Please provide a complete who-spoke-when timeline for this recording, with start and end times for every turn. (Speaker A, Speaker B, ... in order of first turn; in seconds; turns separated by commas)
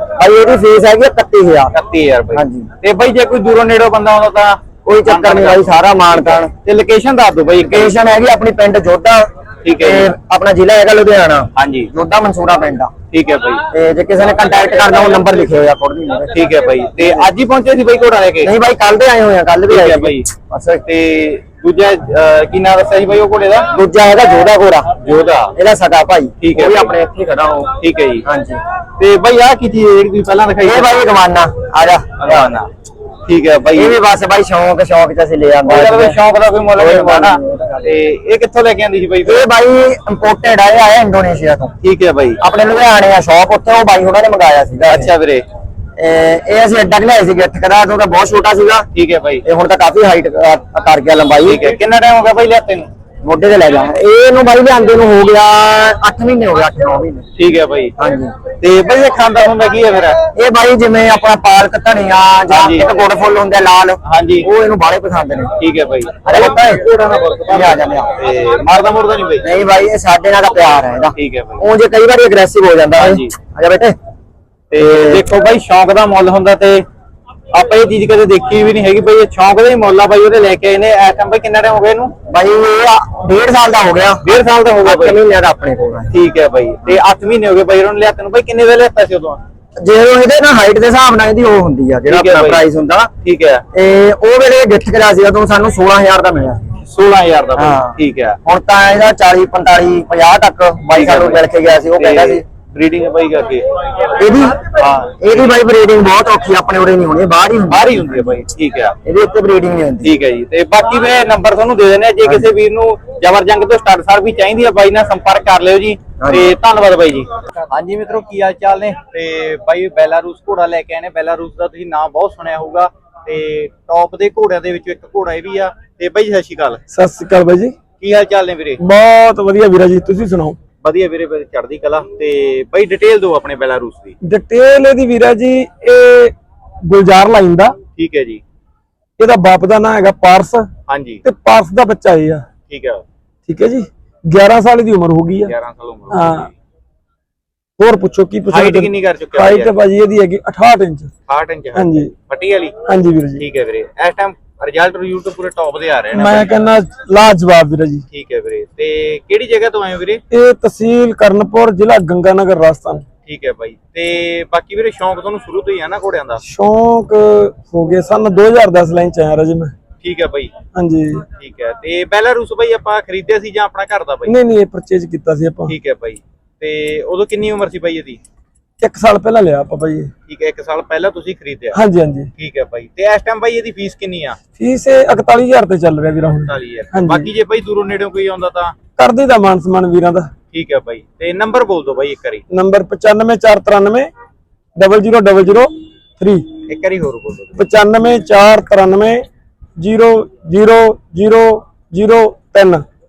Speaker A: 0.2-1.7, Speaker B: 1.7-8.0, Speaker A: 2.3-2.7, Speaker A: 4.8-6.5, Speaker A: 7.6-12.9, Speaker B: 9.6-10.1, Speaker B: 11.6-11.9, Speaker B: 13.1-13.7, Speaker A: 13.7-17.3, Speaker B: 16.3-18.5, Speaker A: 18.4-20.8, Speaker B: 19.7-20.2, Speaker B: 20.8-23.7, Speaker A: 23.7-28.6, Speaker B: 25.0-25.5, Speaker B: 26.4-26.9, Speaker B: 27.8-28.2, Speaker B: 29.0-31.0, Speaker A: 30.6-32.6, Speaker B: 32.2-32.7, Speaker B: 33.2-34.0, Speaker A: 33.7-36.2, Speaker B: 35.6-39.4, Speaker A: 36.7-37.9, Speaker A: 39.2-41.7, Speaker B: 41.8-42.4, Speaker A: 42.4-45.1, Speaker B: 44.9-45.5, Speaker A: 46.0-48.9, Speaker B: 48.9-49.4, Speaker A: 49.4-51.7, Speaker B: 51.4-52.9, Speaker A: 53.2-57.2, Speaker B: 57.4-57.9, Speaker A: 58.0-58.4, Speaker B: 58.6-60.2, Speaker A: 60.3-65.5, Speaker B: 62.5-62.9, Speaker B: 64.0-64.5, Speaker B: 65.6-69.5, Speaker A: 66.2-66.9, Speaker A: 67.4-68.2, Speaker A: 69.4-74.0, Speaker B: 71.2-71.6, Speaker B: 73.0-73.3, Speaker B: 74.7-76.8, Speaker A: 74.7-75.3, Speaker B: 77.5-82.1, Speaker A: 82.3-86.2, Speaker B: 84.2-85.2, Speaker B: 86.1-89.4, Speaker A: 89.8-93.1, Speaker B: 92.1-92.6, Speaker B: 93.2-93.6, Speaker A: 93.7-96.8, Speaker B: 96.9-98.4, Speaker A: 97.5-102.4, Speaker B: 100.9-101.4, Speaker B: 102.0-103.6, Speaker A: 104.2-108.4, Speaker B: 104.6-105.5, Speaker B: 107.7-108.9, Speaker A: 109.0-110.1, Speaker B: 110.0-126.8, Speaker A: 112.2-112.5, Speaker A: 116.2-116.5, Speaker C: 126.9-127.7, Speaker B: 128.0-128.8, Speaker C: 128.8-130.6, Speaker B: 130.8-134.1, Speaker C: 134.2-136.3, Speaker C: 136.8-137.8, Speaker B: 137.9-138.4, Speaker C: 139.2-140.7, Speaker B: 140.9-141.2, Speaker C: 141.2-142.4, Speaker B: 142.7-143.0, Speaker C: 143.4-145.6, Speaker B: 145.4-146.5, Speaker C: 146.1-146.5, Speaker C: 147.8-151.1, Speaker B: 148.5-149.7, Speaker B: 151.3-152.8, Speaker C: 151.7-152.1, Speaker C: 152.8-153.4, Speaker B: 153.4-156.6, Speaker C: 156.1-158.0, Speaker B: 158.1-160.2, Speaker C: 160.3-163.0, Speaker B: 163.2-166.4, Speaker C: 166.4-169.7, Speaker B: 170.0-170.5, Speaker C: 170.7-171.2, Speaker B: 171.4-174.3, Speaker C: 174.2-175.7, Speaker B: 175.7-178.2, Speaker C: 178.8-180.1, Speaker B: 180.3-181.8, Speaker C: 181.7-182.3, Speaker B: 182.3-184.4, Speaker C: 184.6-187.3, Speaker B: 186.4-188.7, Speaker C: 189.0-190.3, Speaker B: 190.5-192.4, Speaker C: 192.5-194.1, Speaker C: 194.7-196.5, Speaker B: 196.7-197.6, Speaker C: 197.5-199.3, Speaker C: 199.8-202.8